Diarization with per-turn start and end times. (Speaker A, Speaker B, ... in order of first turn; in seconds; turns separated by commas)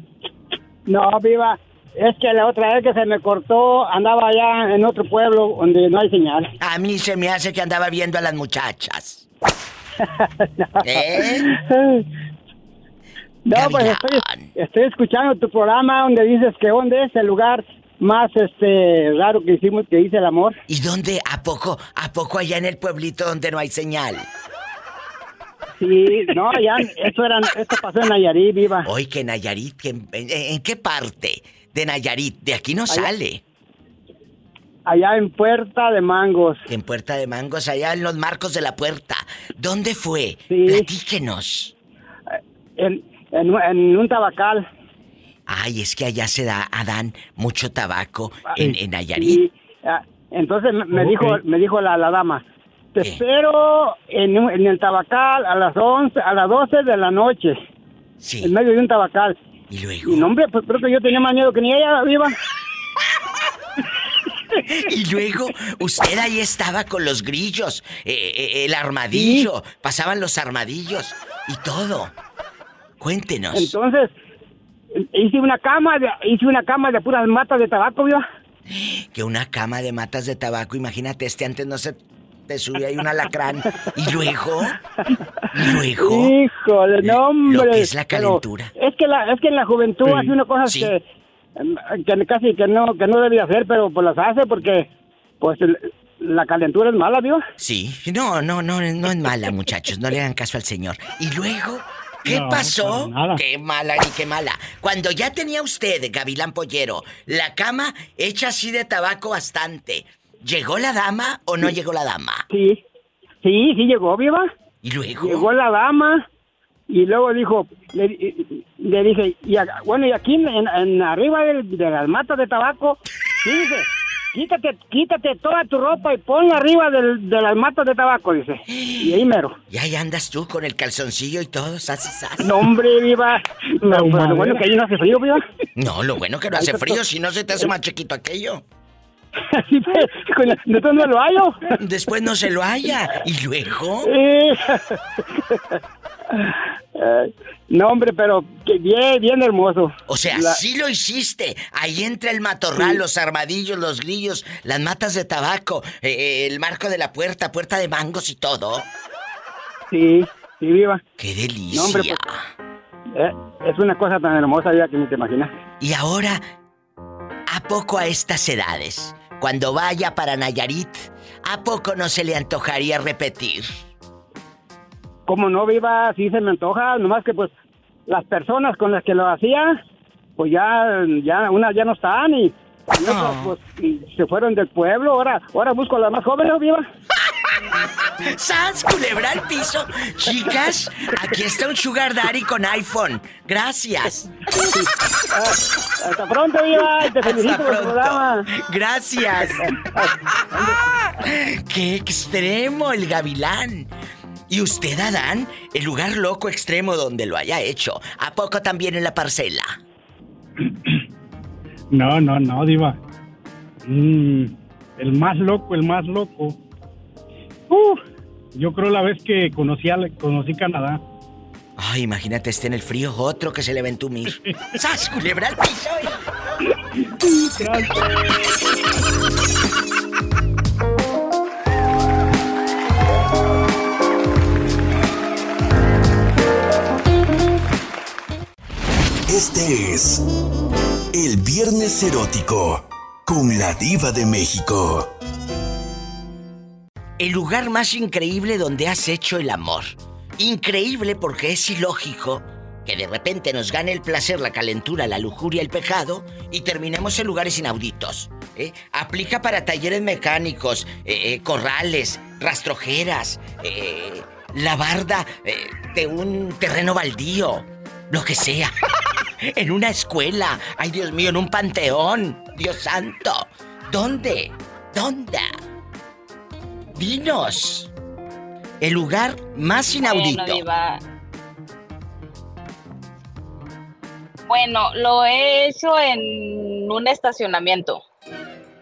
Speaker A: 0.9-6.5, Speaker B: 6.6-9.3, Speaker A: 10.0-12.0, Speaker B: 10.8-11.5, Speaker A: 13.4-20.6, Speaker B: 13.5-14.5, Speaker B: 20.7-24.3, Speaker A: 25.8-28.9, Speaker B: 28.8-33.4, Speaker A: 34.9-36.6, Speaker B: 36.7-41.7, Speaker A: 40.5-40.9, Speaker A: 42.8-44.6, Speaker B: 45.5-49.4, Speaker A: 48.5-52.4, Speaker C: 50.9-51.4, Speaker A: 53.0-57.6, Speaker B: 58.2-58.5, Speaker A: 58.4-59.4, Speaker B: 59.7-60.3, Speaker A: 60.0-62.4, Speaker B: 64.6-72.1, Speaker A: 69.1-69.5, Speaker B: 73.0-73.7, Speaker A: 73.5-74.1, Speaker A: 75.1-78.2, Speaker B: 78.7-84.7, Speaker B: 85.5-86.3, Speaker A: 85.5-91.0, Speaker B: 87.0-88.7, Speaker B: 90.7-90.9, Speaker A: 91.6-94.9, Speaker A: 95.4-97.4, Speaker B: 97.6-112.5, Speaker C: 102.2-103.4, Speaker A: 112.5-112.8, Speaker A: 113.4-114.5, Speaker B: 114.8-115.5, Speaker A: 115.2-116.2, Speaker A: 116.9-129.5, Speaker B: 128.7-132.5, Speaker A: 132.4-135.4, Speaker C: 133.9-134.6, Speaker B: 135.8-138.6, Speaker A: 136.6-137.0, Speaker A: 139.4-141.8, Speaker B: 141.8-144.1, Speaker A: 144.0-145.0, Speaker A: 145.5-145.8, Speaker A: 146.3-150.6, Speaker B: 150.1-158.9, Speaker A: 159.9-161.0, Speaker B: 161.2-162.5, Speaker A: 161.7-162.2, Speaker A: 163.1-165.5, Speaker B: 165.8-166.4, Speaker B: 167.5-173.9, Speaker A: 175.3-177.5, Speaker A: 178.1-179.8, Speaker A: 180.4-186.8, Speaker B: 183.0-183.5, Speaker B: 188.2-194.3, Speaker A: 194.5-198.5, Speaker B: 197.2-199.6, Speaker A: 199.5-200.8, Speaker B: 201.2-203.9, Speaker B: 204.5-209.8, Speaker C: 211.9-213.0, Speaker C: 213.8-216.6, Speaker C: 217.7-218.0, Speaker C: 218.5-221.0, Speaker B: 221.8-226.2, Speaker C: 227.6-228.1, Speaker D: 239.3-240.2, Speaker D: 241.1-245.1, Speaker B: 247.2-268.7, Speaker B: 269.4-275.5, Speaker B: 276.9-277.9, Speaker B: 278.8-280.6, Speaker E: 280.0-281.0, Speaker E: 284.5-288.0